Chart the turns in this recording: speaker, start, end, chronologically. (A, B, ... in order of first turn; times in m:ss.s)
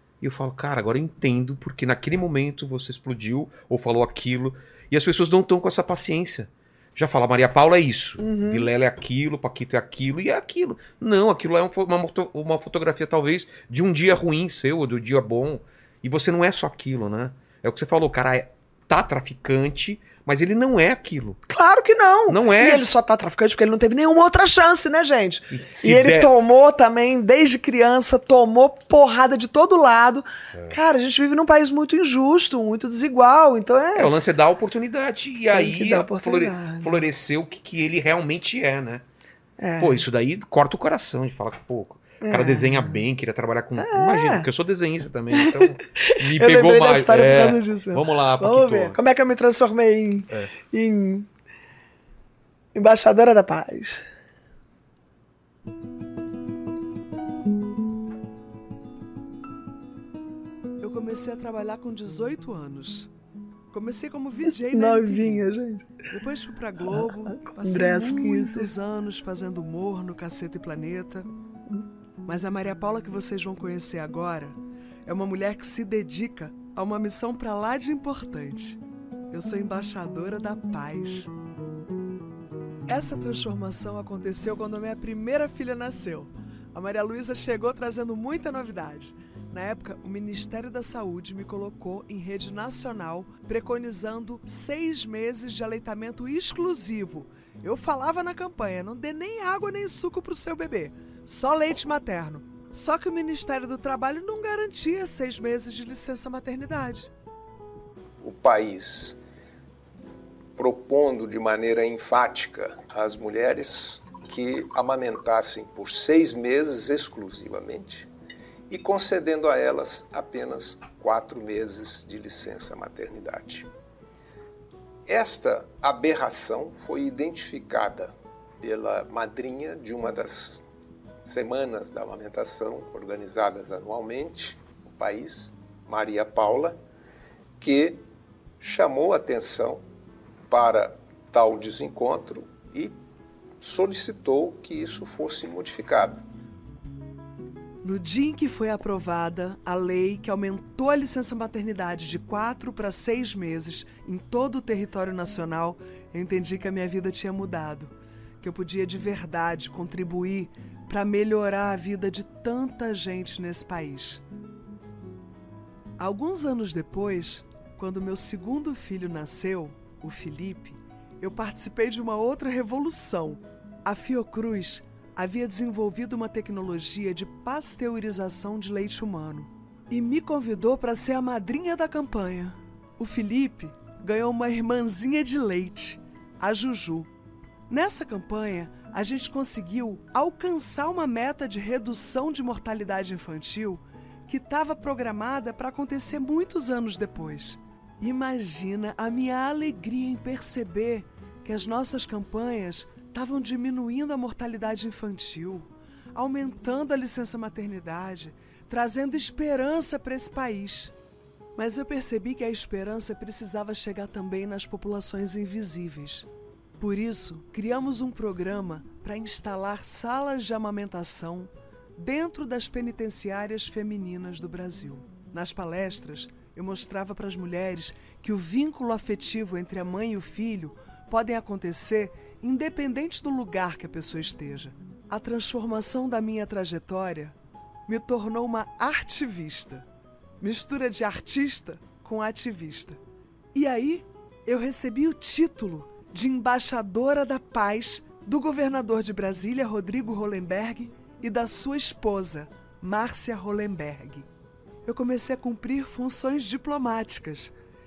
0:00.2-0:21.4 A
0:08.2-0:08.7 B
0:21.5-0:34.1 B
0:22.3-0:22.8 A
0:25.5-0:26.3 A
0:33.9-0:39.0 A
0:35.5-0:37.0 B
0:39.6-0:40.0 B
0:39.8-0:49.0 A
0:42.2-0:43.0 B
0:43.8-0:44.5 B
0:45.4-0:51.3 B
0:52.7-0:54.0 B
1:00.8-1:03.1 C
1:03.7-1:05.4 C
1:04.7-1:05.9 B
1:06.1-1:11.3 C
1:06.9-1:08.7 B
1:12.2-1:18.8 C
1:19.3-1:21.3 C
1:22.9-1:47.1 C
1:48.2-1:49.2 D
1:50.6-1:58.1 D
1:58.7-2:03.7 D
2:05.1-2:10.6 D
2:11.2-2:16.8 D
2:17.6-2:18.0 D
2:18.6-2:19.8 D
2:20.5-2:22.9 D
2:23.6-2:26.2 D
2:27.8-2:44.2 C
2:46.0-3:07.1 C
3:07.7-3:30.9 C
3:31.6-3:36.2 C
3:36.8-3:57.3 C
3:57.9-3:59.8 C
4:00.4-4:03.0 C
4:03.5-4:14.3 C
4:14.8-4:17.5 C